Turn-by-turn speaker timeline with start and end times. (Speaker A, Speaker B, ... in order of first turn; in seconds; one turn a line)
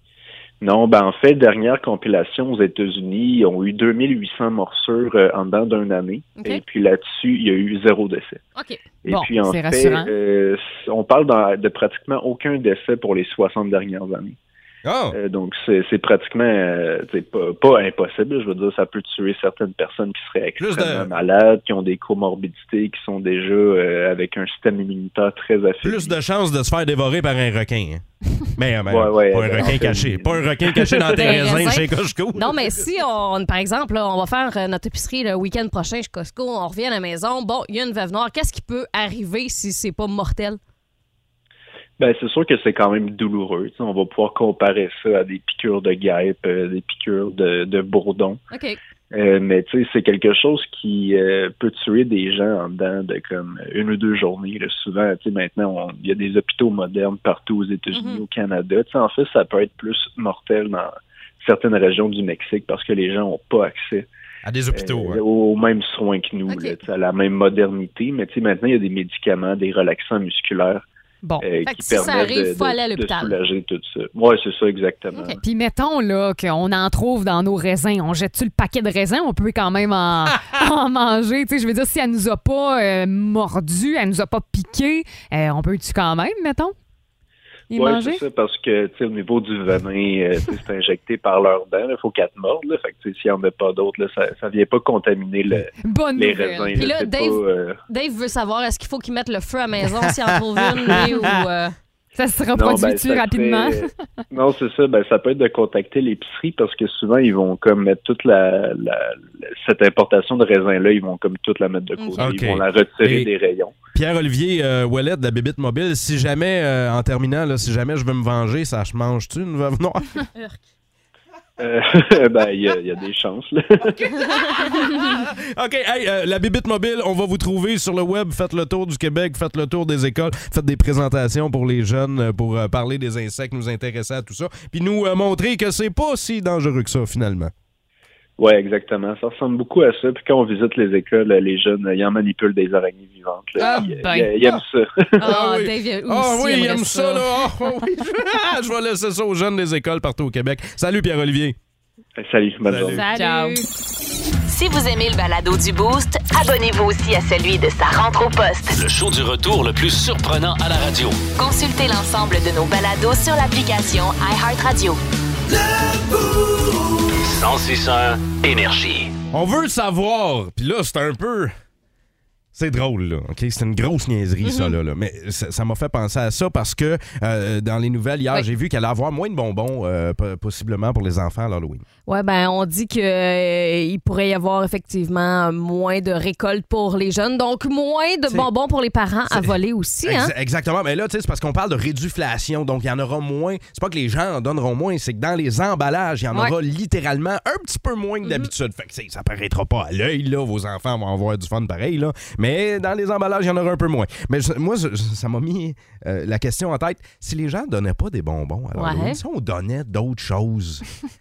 Speaker A: 0.6-8.4
Speaker B: 6.3-6.6
Speaker B: 8.6-8.8
Speaker A: 9.0-14.4
Speaker C: 9.1-10.1
Speaker D: 14.8-15.2
Speaker A: 15.1-26.1
Speaker D: 20.6-21.1
Speaker D: 25.8-28.0
Speaker D: 28.6-32.8
Speaker A: 28.9-31.1
Speaker B: 31.0-40.6
Speaker A: 42.0-48.4
Speaker B: 48.5-48.8
Speaker A: 49.1-64.1
Speaker B: 57.9-58.2
Speaker D: 64.4-65.2
Speaker A: 64.7-70.8
Speaker B: 66.5-66.8
Speaker A: 71.4-75.4
Speaker B: 71.7-73.4
Speaker B: 75.1-75.4
Speaker C: 75.4-86.7
Speaker C: 87.7-88.2
Speaker A: 87.7-97.8
Speaker C: 95.8-96.8
Speaker B: 96.7-101.7
Speaker D: 100.7-101.1
Speaker C: 102.2-103.9
Speaker A: 102.5-113.7
Speaker B: 112.0-112.3
Speaker D: 112.2-113.3
Speaker D: 113.9-120.3
Speaker A: 121.6-124.1
Speaker B: 124.5-125.0
Speaker D: 124.5-137.5
Speaker A: 138.4-145.2
Speaker C: 143.6-144.3
Speaker B: 143.6-143.9
Speaker B: 145.2-147.3
Speaker D: 145.2-151.6
Speaker A: 152.2-153.1
Speaker D: 152.7-153.0
Speaker B: 152.9-153.6
Speaker C: 152.9-153.6
Speaker E: 154.5-158.8
Speaker F: 158.7-161.2
Speaker E: 161.3-165.0
Speaker F: 167.2-169.1
Speaker D: 169.3-171.5
Speaker D: 172.5-181.8
Speaker B: 174.4-174.7
Speaker B: 182.1-190.3
Speaker D: 189.3-210.8
Speaker B: 198.2-198.5
Speaker B: 208.7-209.2